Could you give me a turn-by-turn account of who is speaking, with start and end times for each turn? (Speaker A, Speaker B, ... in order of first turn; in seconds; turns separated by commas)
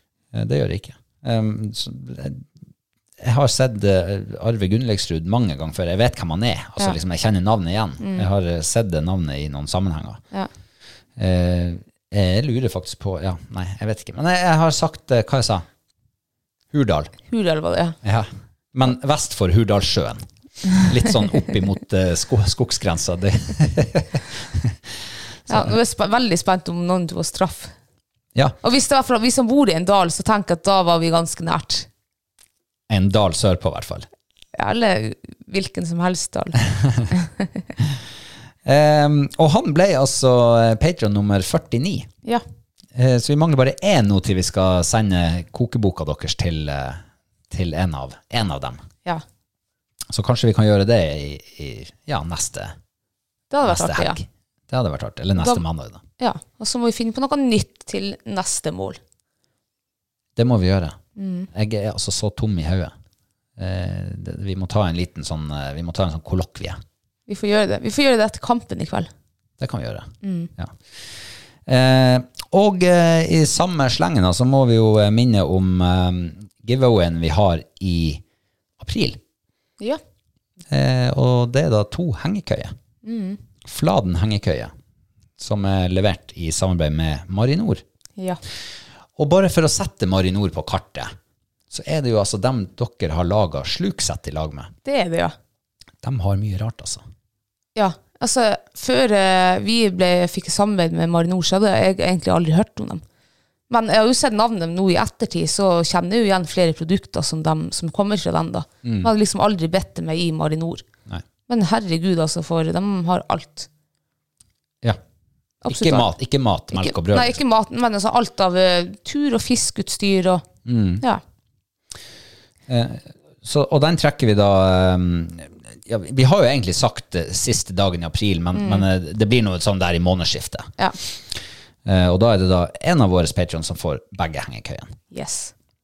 Speaker A: 0.3-2.5, Speaker A: 3.2-10.2, Speaker B: 8.0-8.3, Speaker A: 11.2-15.7, Speaker A: 16.7-17.1, Speaker B: 17.3-18.0, Speaker A: 18.0-20.2, Speaker A: 20.8-24.9, Speaker A: 25.4-25.7, Speaker B: 25.5-27.7, Speaker B: 28.6-31.9, Speaker A: 32.9-34.1, Speaker B: 34.5-37.5, Speaker A: 38.6-42.1, Speaker A: 42.9-48.8, Speaker A: 50.1-52.8, Speaker B: 53.5-54.2, Speaker A: 53.6-56.0, Speaker B: 56.2-59.0, Speaker A: 60.4-61.0, Speaker B: 61.2-61.5, Speaker A: 61.5-62.9, Speaker A: 63.6-66.8, Speaker B: 67.3-69.1, Speaker A: 69.6-70.8, Speaker B: 70.2-70.5, Speaker A: 71.7-78.2, Speaker A: 78.8-79.2, Speaker A: 80.7-82.7, Speaker B: 83.0-83.4, Speaker A: 83.6-84.7, Speaker A: 85.4-87.8, Speaker A: 89.2-91.1, Speaker A: 91.7-94.7, Speaker B: 94.8-95.3, Speaker A: 96.0-97.0, Speaker B: 97.8-103.0, Speaker B: 103.7-110.8, Speaker A: 108.8-109.1, Speaker B: 111.5-113.7, Speaker B: 115.6-116.1, Speaker A: 115.7-117.4, Speaker B: 116.7-120.4, Speaker A: 120.6-121.0, Speaker A: 122.7-134.9, Speaker B: 128.5-128.8, Speaker B: 135.1-135.5